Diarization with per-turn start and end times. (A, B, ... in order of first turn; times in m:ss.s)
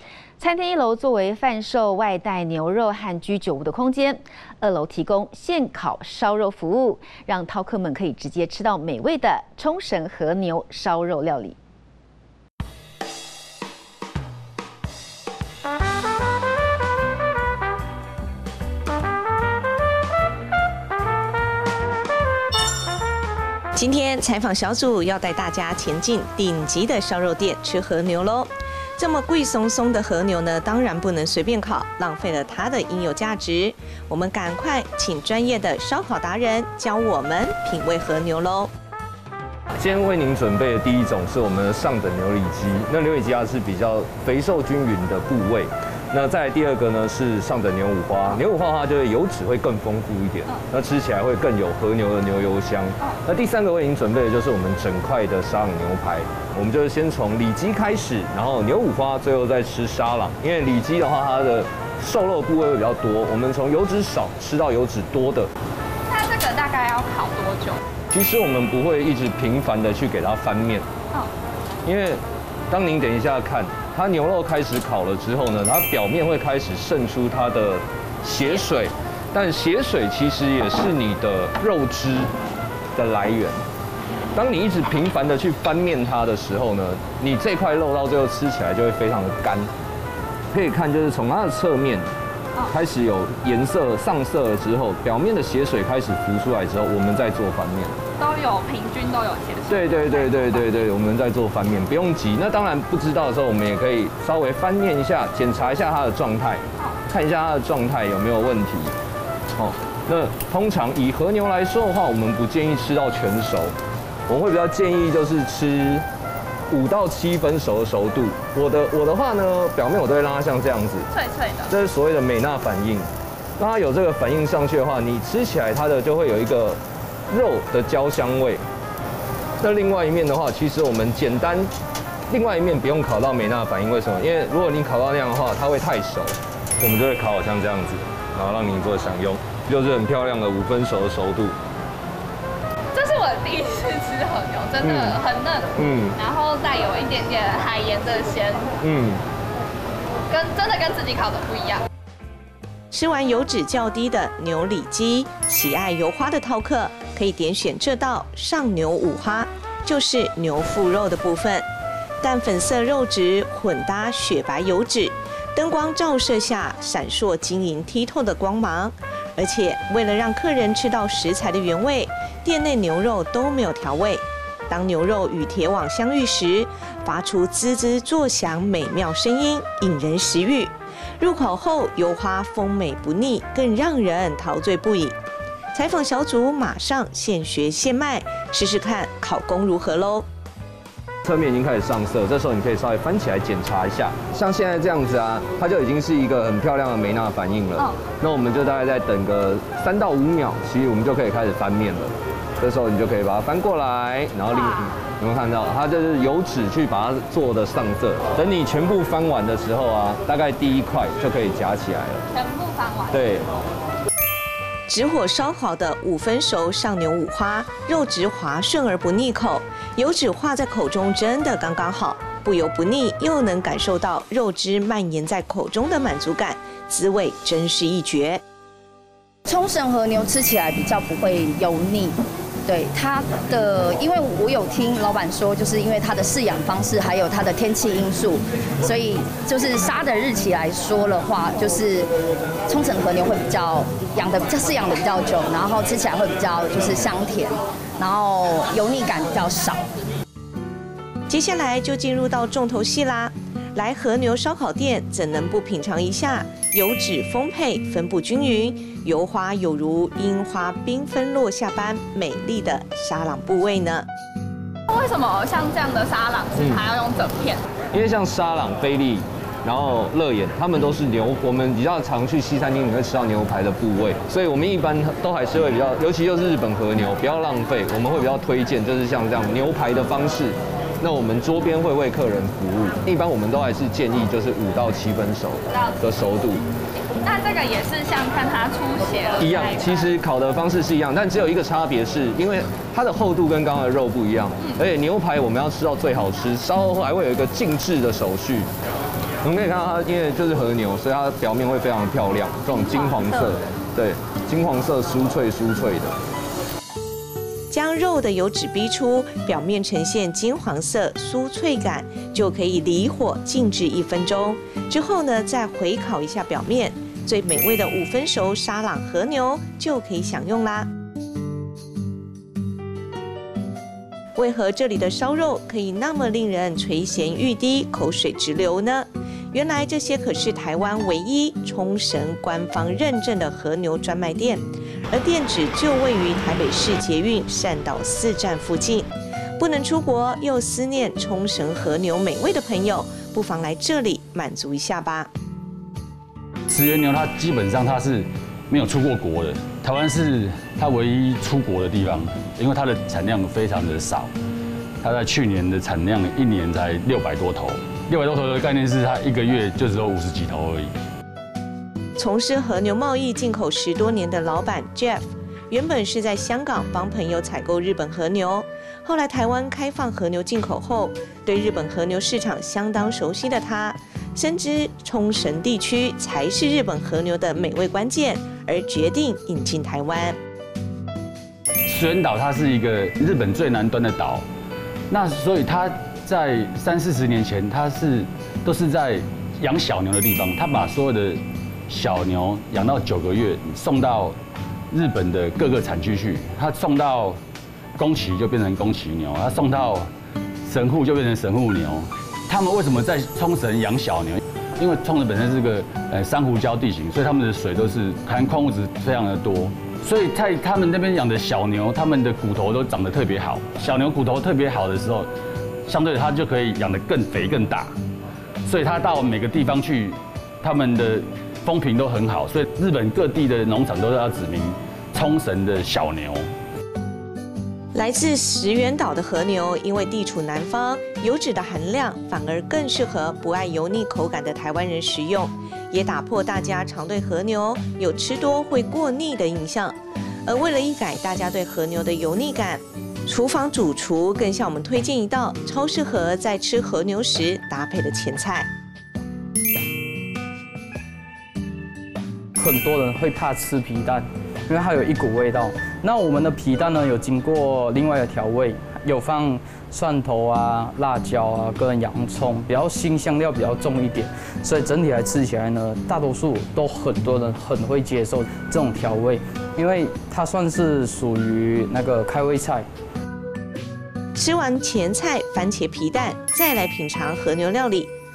0:00.4-0:11.6 A
0:23.8-0:38.7 B
0:39.7-1:05.5 C
1:06.1-1:07.8 D
1:08.1-1:10.9 C
1:11.8-1:22.3 C
1:18.4-1:18.6 D
1:23.0-1:23.6 C
1:24.3-1:29.7 C
1:30.5-1:32.1 C
1:32.7-1:38.0 C
1:38.2-1:40.7 D
1:39.7-1:48.9 C
1:49.5-1:53.8 C
1:54.3-1:56.0 C
1:56.7-2:01.1 C
2:01.1-2:01.7 D
2:01.7-2:08.6 C
2:09.6-2:11.7 C
2:12.3-2:21.6 C
2:22.9-2:28.7 D
2:24.8-2:25.2 C
2:25.8-2:26.2 C
2:28.8-2:29.2 C
2:30.3-2:31.8 D
2:32.9-2:41.6 B
2:42.2-3:05.2 B
3:05.7-3:10.2 B
3:11.2-3:32.2 C
3:24.5-3:24.9 D
3:32.3-3:33.1 D
3:33.1-3:33.5 C
3:34.9-3:48.4 B
3:49.4-4:02.1 E
4:02.7-4:09.9 E
4:11.3-4:24.1 B
4:24.9-4:27.6 D
4:27.9-4:46.6 C
4:47.2-4:50.1 D
4:49.4-4:58.7 C
4:59.4-5:06.2 C
5:02.9-5:03.5 D
5:07.7-5:20.9 B
5:24.4-5:45.3 B
5:46.7-5:54.3 F
5:55.0-6:00.9 F
6:02.2-6:20.4 B
6:21.9-6:24.4 F
6:25.1-6:34.4 F
6:34.9-6:37.4 F
6:38.0-6:40.1 F
6:40.6-6:55.3 F
6:55.9-6:57.9 F
6:58.7-7:06.5 F
7:07.9-7:28.7 B
7:32.6-7:52.9 G
7:54.4-7:58.1 B